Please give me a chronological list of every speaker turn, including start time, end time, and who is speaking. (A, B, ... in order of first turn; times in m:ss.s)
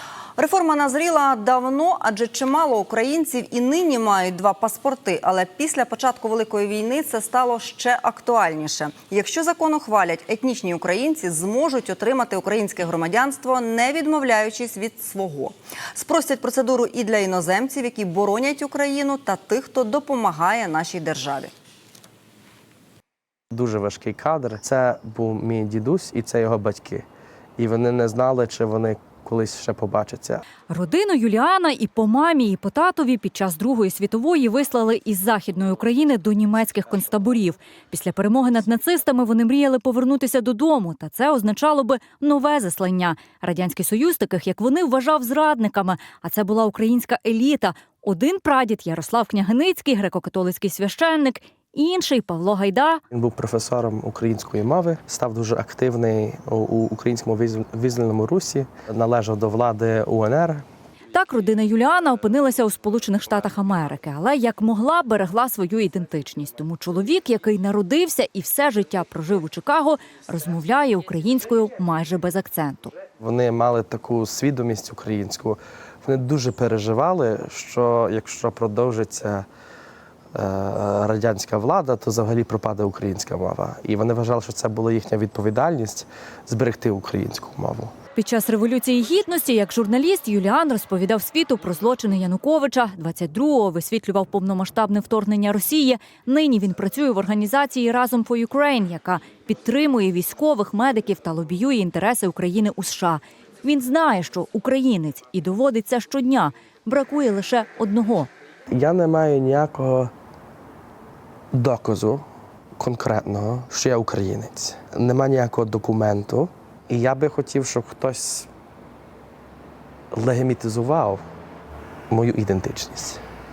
0:00.4-0:21.5 A
0:23.5-0:27.0 B
0:27.6-0:30.4 B
0:30.7-0:53.0 C
0:53.1-1:00.6 B
1:01.1-1:12.9 C
1:13.2-1:19.4 B
1:20.3-1:27.9 B
1:28.2-1:48.3 C
1:48.7-1:50.1 B
1:51.5-1:52.2 B
1:52.8-1:58.5 B
2:00.1-2:01.2 B
2:02.1-2:03.2 B